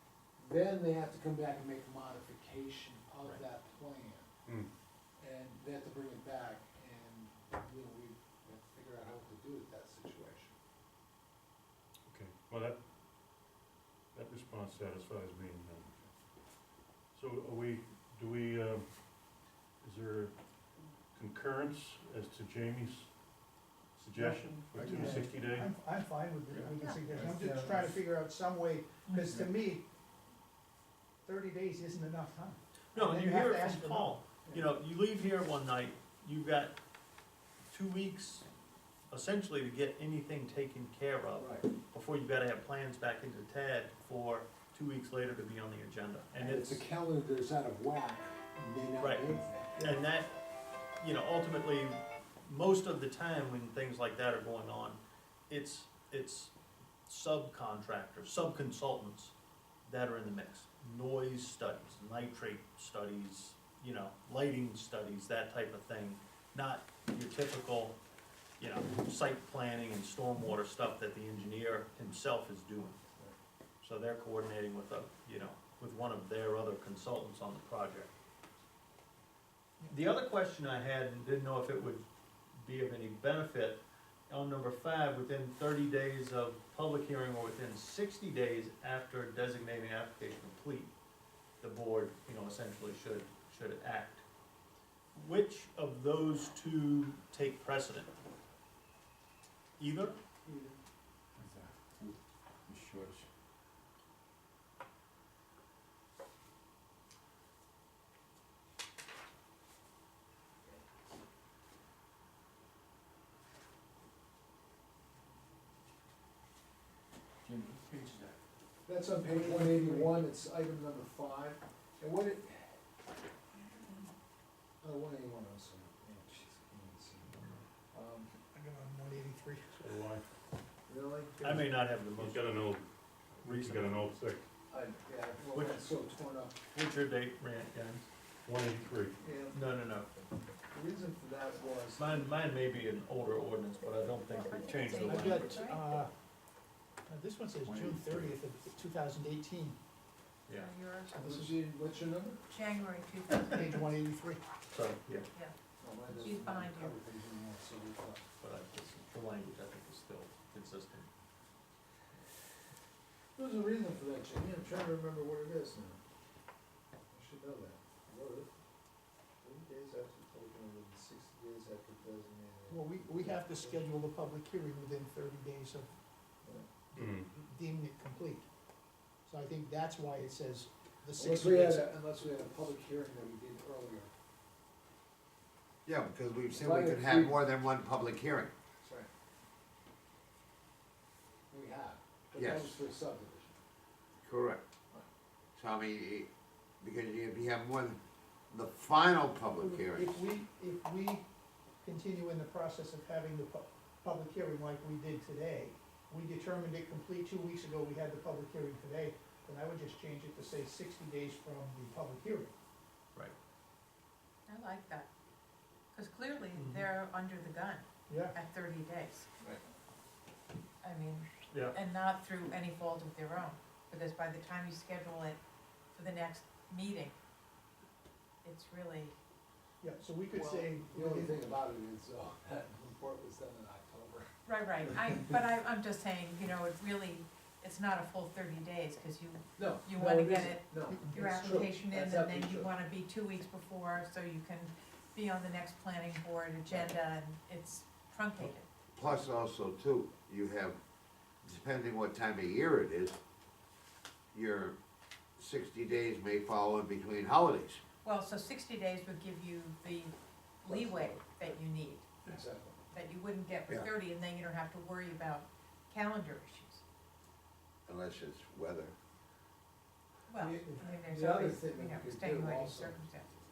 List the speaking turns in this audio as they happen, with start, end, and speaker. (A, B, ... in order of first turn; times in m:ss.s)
0:00.4-0:04.3 A
0:05.2-0:10.5 A
0:12.1-0:12.8 B
0:14.1-0:16.2 B
0:17.1-0:18.9 B
0:19.8-0:20.4 B
0:21.1-0:23.2 B
0:24.0-0:25.7 B
0:24.1-0:29.8 C
0:27.2-0:27.9 D
0:31.2-0:34.2 C
0:32.9-0:36.8 E
0:37.7-0:38.5 E
0:39.1-0:46.8 E
0:41.4-0:41.6 A
0:46.3-0:50.0 A
0:49.0-0:50.3 E
0:51.0-0:56.5 E
0:57.1-0:59.3 E
0:59.8-1:08.0 E
1:08.6-1:13.0 E
1:13.8-1:18.1 E
1:19.9-1:30.9 E
1:31.6-1:34.2 E
1:35.1-1:38.1 E
1:39.8-1:40.2 E
1:40.4-1:40.8 A
1:41.5-1:42.0 D
1:42.8-1:43.2 D
1:57.4-1:58.3 D
1:58.8-2:02.8 A
1:59.2-2:00.1 C
2:03.6-2:04.1 A
2:04.8-2:07.3 A
2:07.2-2:07.6 E
2:07.9-2:08.3 A
2:08.5-2:09.9 C
2:09.8-2:10.2 B
2:10.9-2:11.6 A
2:11.4-2:12.5 E
2:12.1-2:12.8 B
2:13.4-2:14.1 E
2:13.4-2:14.5 B
2:14.7-2:16.8 A
2:15.5-2:15.9 E
2:16.7-2:18.1 E
2:18.4-2:19.2 B
2:19.2-2:19.7 A
2:19.5-2:20.2 E
2:20.7-2:22.2 A
2:22.0-2:25.5 E
2:24.1-2:26.0 F
2:25.0-2:26.1 C
2:25.0-2:25.6 A
2:27.1-2:29.8 C
2:30.5-2:31.1 F
2:31.1-2:31.6 C
2:31.1-2:32.4 A
2:32.5-2:33.9 F
2:33.5-2:34.4 C
2:34.7-2:35.2 E
2:35.8-2:38.3 A
2:36.1-2:37.0 F
2:38.4-2:41.1 E
2:43.4-2:46.0 A
2:47.1-2:48.5 A
2:49.4-2:53.9 A
2:52.7-2:55.9 C
2:56.4-2:56.8 A
2:56.9-2:58.4 C
2:56.9-2:57.3 B
2:59.2-3:01.9 C
3:01.2-3:04.1 A
3:05.8-3:08.5 G
3:06.5-3:07.4 A
3:08.8-3:09.1 A
3:11.5-3:13.6 A
3:12.3-3:12.8 G
3:14.2-3:14.6 G
3:15.6-3:16.3 G
3:16.8-3:20.2 G
3:19.6-3:21.3 C
3:21.8-3:32.5 C
3:34.5-3:35.1 F
3:35.9-3:39.3 F
3:36.5-3:36.8 E
3:38.1-3:38.3 C
3:40.8-3:45.4 F
3:45.9-3:47.1 F
3:48.4-3:49.2 F
3:49.8-3:51.5 C
3:50.3-3:54.3 A
3:54.4-4:08.6 F
3:59.6-4:02.7 A
4:08.9-4:10.8 G
4:11.4-4:13.2 G
4:14.3-4:14.8 G
4:15.4-4:17.8 G
4:18.0-4:22.1 F
4:20.7-4:21.1 G
4:22.2-4:22.8 A
4:22.9-4:26.8 F
4:27.9-4:28.9 G
4:30.3-4:33.3 F
4:30.3-4:33.0 A